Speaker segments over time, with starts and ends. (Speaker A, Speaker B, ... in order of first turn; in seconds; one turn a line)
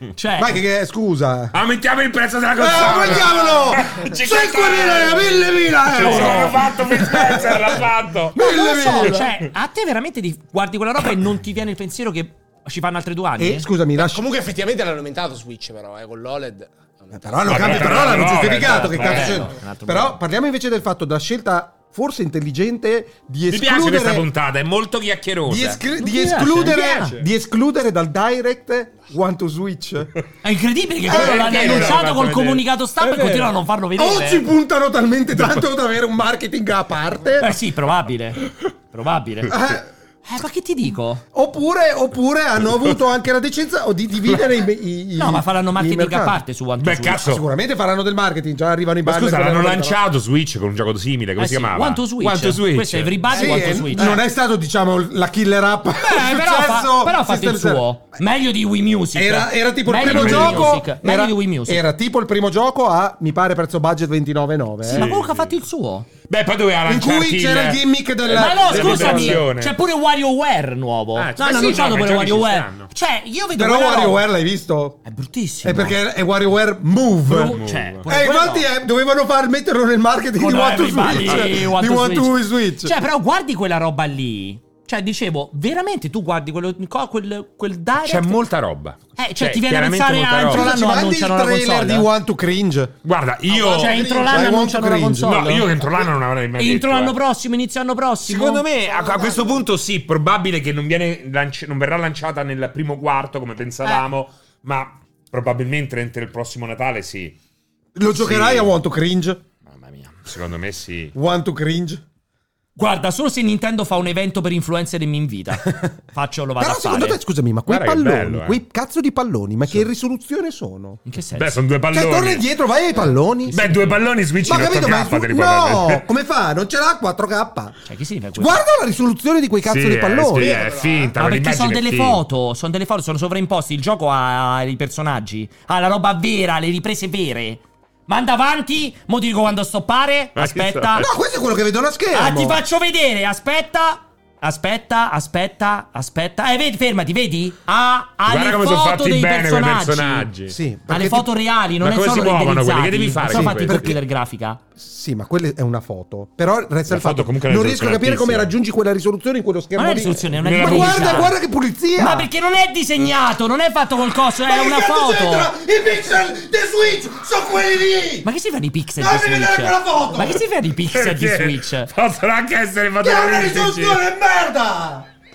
Speaker A: 0.1-0.6
Speaker B: 0.4-1.6
Speaker C: 1.5-9.2
Speaker B: 2.6-7.8
Speaker A: 5.9-6.6
Speaker B: 8.3-9.2
Speaker A: 8.4-13.7
Speaker B: 13.4-14.2
Speaker D: 14.0-18.4
Speaker B: 17.1-24.2
Speaker C: 17.5-19.4
Speaker A: 17.7-20.1
Speaker C: 23.5-25.8
Speaker B: 25.5-30.1
Speaker A: 26.0-27.2
Speaker A: 30.4-34.5
Speaker C: 31.1-33.5
Speaker B: 31.1-32.0
Speaker B: 34.0-37.5
Speaker A: 37.4-39.7
Speaker B: 39.5-39.8
Speaker A: 40.2-41.2
Speaker B: 41.3-46.4
Speaker A: 45.2-47.3
Speaker C: 46.8-47.4
Speaker B: 47.2-50.0
Speaker C: 49.0-53.2
Speaker A: 51.4-54.2
Speaker D: 53.3-53.6
Speaker B: 53.3-57.9
Speaker A: 56.0-61.8
Speaker B: 59.1-65.1
Speaker C: 60.0-60.8
Speaker A: 64.8-66.1
Speaker C: 64.9-65.5
Speaker C: 66.3-69.8
Speaker B: 66.8-69.4
Speaker A: 68.3-74.2
Speaker C: 71.2-72.9
Speaker B: 73.5-75.0
Speaker A: 75.0-76.0
Speaker B: 75.6-82.9
Speaker A: 77.2-78.7
Speaker C: 77.5-78.0
Speaker A: 80.4-88.4
Speaker C: 88.0-90.7
Speaker A: 89.2-92.1
Speaker B: 90.4-92.9
Speaker C: 93.0-94.2
Speaker A: 93.5-95.7
Speaker D: 93.7-94.3
Speaker B: 94.2-95.4
Speaker C: 95.2-97.2
Speaker A: 96.6-98.7
Speaker C: 98.2-107.3
Speaker D: 98.8-99.6
Speaker B: 108.0-109.4
Speaker C: 108.1-108.7
Speaker A: 109.7-110.2
Speaker C: 110.2-111.1
Speaker B: 111.1-112.0
Speaker A: 112.8-117.2
Speaker B: 116.6-121.0
Speaker C: 117.7-118.6
Speaker A: 121.0-121.5
Speaker C: 121.3-122.4
Speaker B: 121.9-123.7
Speaker C: 123.5-126.0
Speaker B: 124.4-127.7
Speaker A: 127.8-128.6
Speaker B: 128.4-130.7
Speaker C: 129.6-132.2
Speaker D: 130.4-131.1
Speaker A: 131.2-141.1
Speaker C: 140.3-141.1
Speaker B: 141.0-142.6
Speaker A: 142.1-150.3
Speaker C: 148.3-150.5
Speaker B: 150.5-151.3
Speaker A: 150.9-154.6
Speaker C: 151.8-153.9
Speaker B: 153.3-153.9
Speaker B: 154.8-162.3
Speaker C: 156.9-158.5
Speaker A: 159.8-161.3
Speaker C: 160.4-161.3
Speaker A: 162.0-165.5
Speaker B: 164.4-168.2
Speaker A: 168.2-171.9
Speaker B: 169.0-170.4
Speaker C: 170.9-174.0
Speaker B: 173.0-175.1